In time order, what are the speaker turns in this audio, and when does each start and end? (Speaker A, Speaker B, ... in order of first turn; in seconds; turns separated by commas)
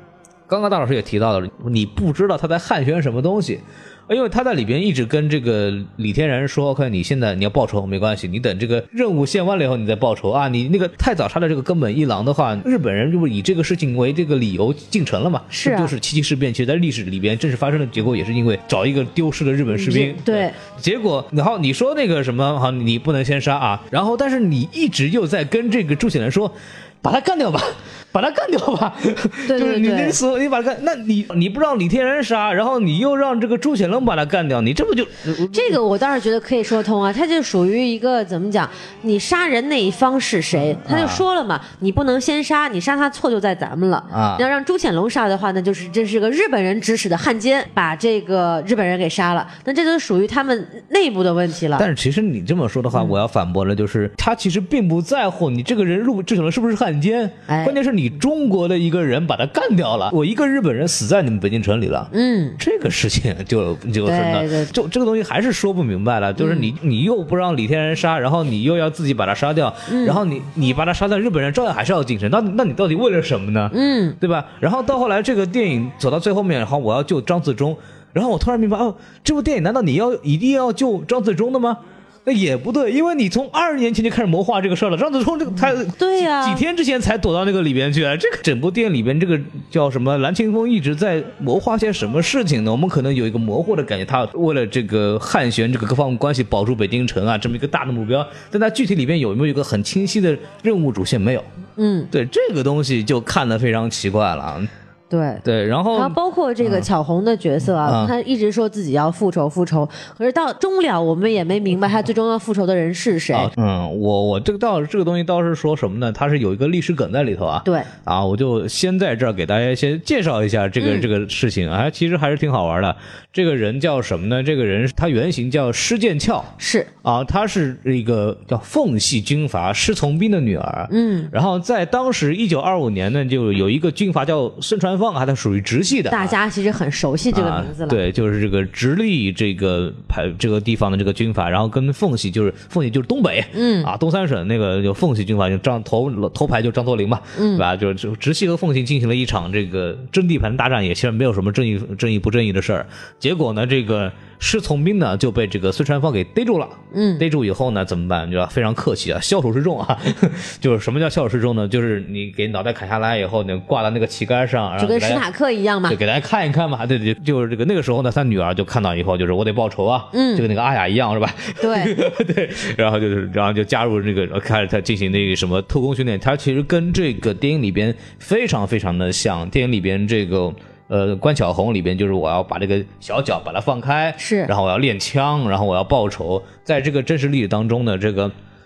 Speaker A: 0.5-35.8, Speaker B: 15.5-15.9, Speaker B: 19.7-20.6, Speaker B: 29.5-30.2, Speaker B: 35.5-51.9, Speaker A: 40.8-41.2, Speaker A: 44.1-44.5, Speaker A: 51.8-101.5, Speaker B: 57.5-57.8, Speaker B: 62.1-62.6, Speaker B: 64.1-64.7, Speaker B: 66.4-66.7, Speaker B: 69.9-70.2, Speaker B: 73.7-74.2, Speaker B: 85.9-86.6, Speaker B: 101.8-102.1, Speaker A: 102.1-104.7, Speaker B: 105.1-105.4, Speaker A: 105.4-106.9, Speaker B: 105.9-113.5, Speaker A: 107.8-108.1, Speaker A: 113.3-136.4, Speaker B: 120.8-121.1, Speaker B: 126.6-126.9, Speaker B: 130.9-131.3, Speaker B: 136.1-138.0, Speaker A: 137.3-165.2, Speaker B: 143.5-143.9, Speaker B: 147.4-147.7, Speaker B: 156.9-157.3, Speaker B: 164.8-166.0, Speaker A: 165.9-188.3, Speaker B: 170.1-170.4, Speaker B: 171.6-171.9, Speaker B: 184.2-184.5